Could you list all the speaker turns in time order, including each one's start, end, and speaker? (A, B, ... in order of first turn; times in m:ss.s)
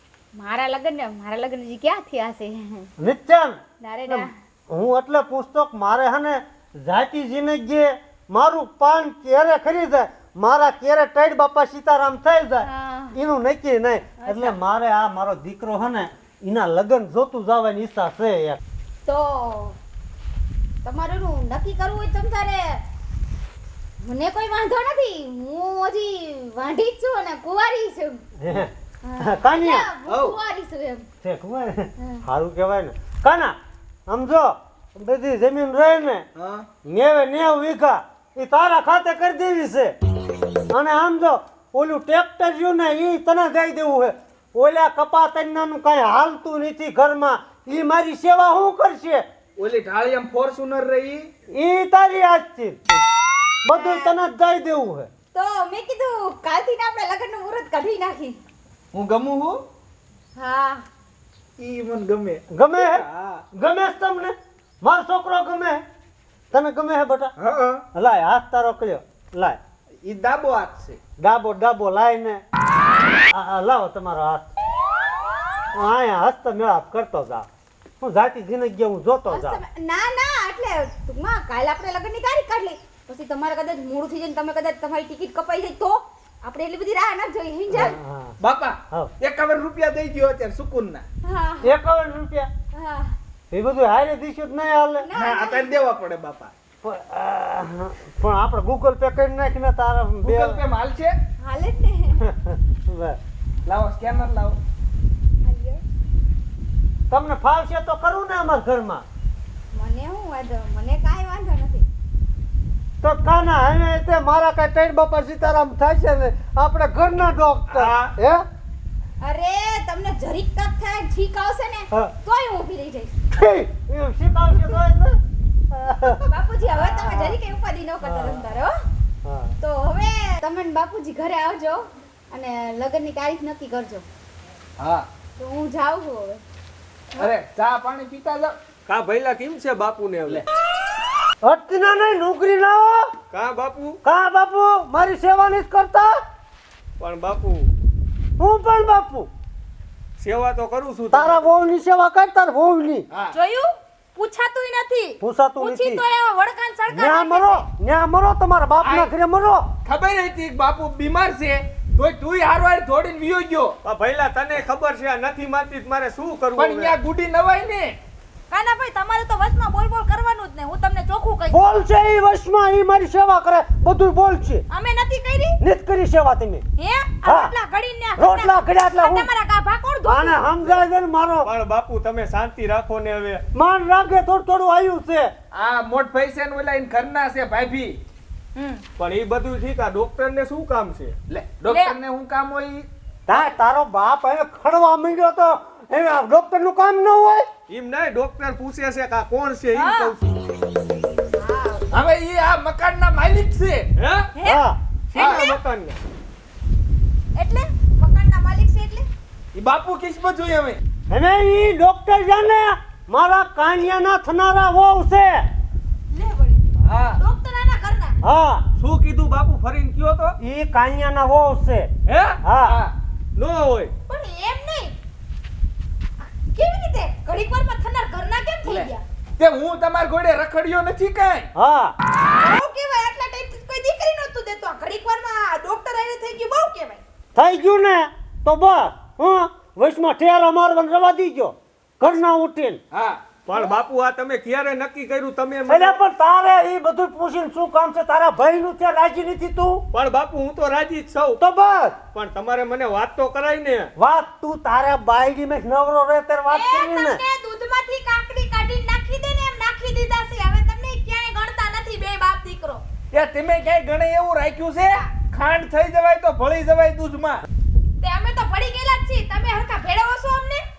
0:00.3-0:02.9 A
0:03.0-0:18.6 B
0:03.8-0:04.3 A
0:12.6-0:13.2 A
0:14.2-0:14.6 A
0:19.0-0:19.8 A
0:20.8-0:22.8 A
0:24.0-0:28.2 A
0:28.4-0:29.9 B
0:29.0-0:31.1 A
0:30.0-0:30.4 C
0:31.2-0:33.6 B
0:34.1-0:36.2 B
0:36.4-0:36.6 C
0:36.8-0:39.9 B
0:40.7-0:49.2 B
0:49.6-0:51.3 C
0:51.5-0:52.8 B
0:53.6-0:55.1 B
0:53.7-0:54.1 A
0:55.3-0:58.4 A
0:58.9-0:59.6 C
1:00.3-1:00.8 A
1:01.6-1:03.4 C
1:02.5-1:03.0 B
1:03.6-1:05.8 B
1:06.5-1:07.3 B
1:07.4-1:07.8 C
1:07.9-1:09.6 B
1:10.0-1:11.0 C
1:11.2-1:12.4 B
1:13.3-1:14.5 B
1:15.7-1:17.5 B
1:18.0-1:19.6 B
1:19.3-1:28.0 A
1:27.7-1:28.4 B
1:28.4-1:31.0 C
1:31.2-1:31.7 A
1:31.6-1:32.5 B
1:32.7-1:33.2 A
1:33.5-1:35.1 B
1:35.0-1:35.8 A
1:35.1-1:36.5 C
1:36.8-1:40.6 B
1:40.2-1:41.1 C
1:41.4-1:42.2 A
1:42.2-1:43.2 B
1:43.6-1:44.6 C
1:45.4-1:45.8 A
1:47.1-1:49.0 B
1:49.7-1:51.9 A
1:53.0-1:58.4 B
1:57.7-1:58.1 C
1:59.2-2:03.1 A
2:03.3-2:05.2 B
2:05.7-2:07.4 B
2:06.2-2:08.7 A
2:08.0-2:08.6 B
2:09.2-2:09.5 B
2:09.6-2:14.0 A
2:14.8-2:15.0 C
2:15.4-2:16.4 A
2:17.1-2:18.6 C
2:18.9-2:20.4 D
2:21.4-2:23.1 B
2:23.3-2:24.0 D
2:24.0-2:26.2 B
2:27.0-2:27.7 D
2:28.4-2:29.3 B
2:30.2-2:31.4 D
2:31.1-2:33.0 B
2:33.3-2:37.6 E
2:35.2-2:36.0 B
2:36.9-2:39.6 B
2:38.8-2:39.1 C
2:39.8-2:43.8 C
2:43.8-2:46.9 D
2:46.6-2:48.0 C
2:48.5-2:51.6 E
2:51.5-2:54.6 B
2:54.7-2:55.6 E
2:55.6-2:56.6 B
2:56.8-3:00.5 E
2:57.2-2:57.5 B
2:58.2-2:59.3 B
3:00.0-3:01.5 B
3:01.4-3:03.4 D
3:03.5-3:05.3 B
3:05.5-3:08.0 C
3:08.5-3:08.8 E
3:09.0-3:11.1 D
3:11.3-3:12.9 C
3:11.7-3:12.0 E
3:13.3-3:17.5 B
3:17.7-3:20.3 D
3:19.7-3:20.1 E
3:21.4-3:21.9 E
3:21.9-3:23.9 C
3:24.0-3:24.3 D
3:24.3-3:24.6 E
3:24.4-3:24.8 B
3:25.1-3:26.0 D
3:25.1-3:25.5 C
3:25.1-3:25.6 E
3:27.4-3:29.1 E
3:29.5-3:30.8 C
3:31.1-3:35.5 B
3:36.1-3:36.6 E
3:36.8-3:37.2 C
3:37.2-3:38.2 E
3:38.2-3:38.6 B
3:38.8-3:40.4 D
3:40.4-3:41.9 B
3:42.1-3:42.3 D
3:42.4-3:42.8 B
3:42.6-3:42.9 C
3:43.4-3:43.9 D
3:44.1-3:44.9 E
3:46.2-3:49.0 E
3:48.6-3:51.5 C
3:51.6-3:51.9 B
3:52.4-3:57.0 E
3:57.3-4:02.8 B
4:02.9-4:03.2 C
4:03.4-4:06.0 D
4:05.7-4:09.8 B
4:09.9-4:11.4 D
4:11.4-4:12.0 B
4:12.1-4:13.9 D
4:14.0-4:17.2 B
4:16.5-4:22.8 E
4:23.1-4:27.4 C
4:28.0-4:30.6 E